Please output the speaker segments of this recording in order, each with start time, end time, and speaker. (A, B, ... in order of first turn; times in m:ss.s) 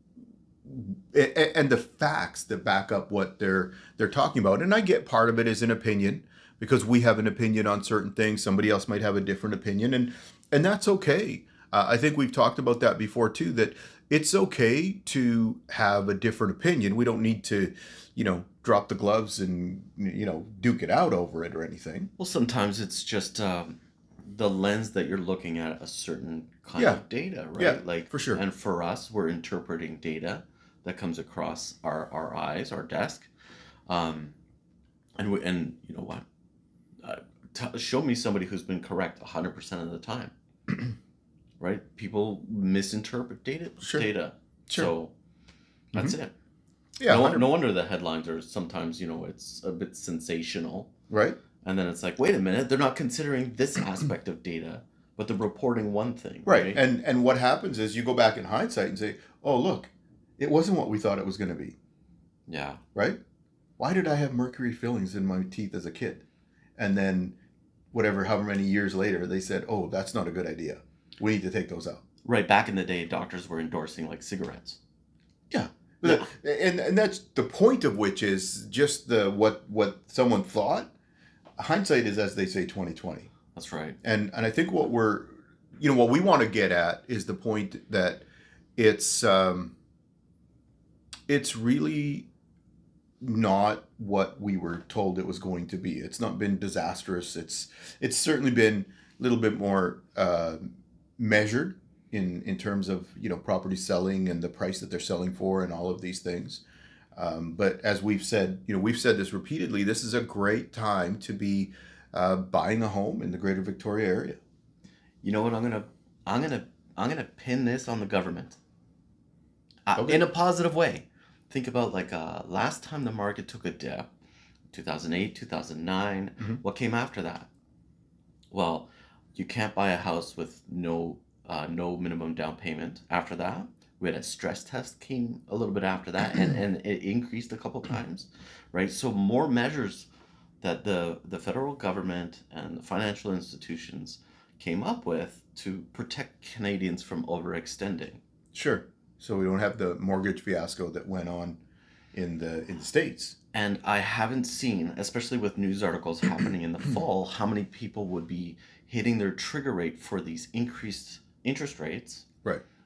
0:00.6-0:22.1 A
0:22.2-0:33.3 B
0:26.8-0:27.0 A
0:27.6-0:28.4 A
0:33.9-0:34.3 B
0:35.2-0:36.2 B
0:37.0-0:40.3 B
0:41.6-0:45.1 B
0:43.8-0:44.1 A
0:45.9-0:46.3 B
0:47.0-0:47.5 A
0:47.0-0:50.9 B
0:51.1-0:51.4 A
0:51.6-0:56.8 B
0:56.4-1:01.7 A
1:02.5-1:02.8 B
1:03.8-1:06.2 A
1:06.8-1:07.4 A
1:07.9-1:12.0 A
1:12.2-1:14.8 B
1:15.5-1:20.9 A
1:16.0-1:16.3 B
1:21.6-1:23.3 A
1:23.5-1:24.0 B
1:24.0-1:28.2 A
1:28.8-1:29.7 A
1:31.3-1:32.3 A
1:33.2-1:46.6 A
1:47.2-1:54.4 A
1:55.2-1:58.6 B
1:59.9-2:04.1 B
2:00.0-2:00.2 A
2:04.7-2:07.5 B
2:08.5-2:20.1 B
2:20.6-2:28.2 B
2:28.5-2:31.6 A
2:32.1-2:33.4 A
2:33.5-2:42.2 B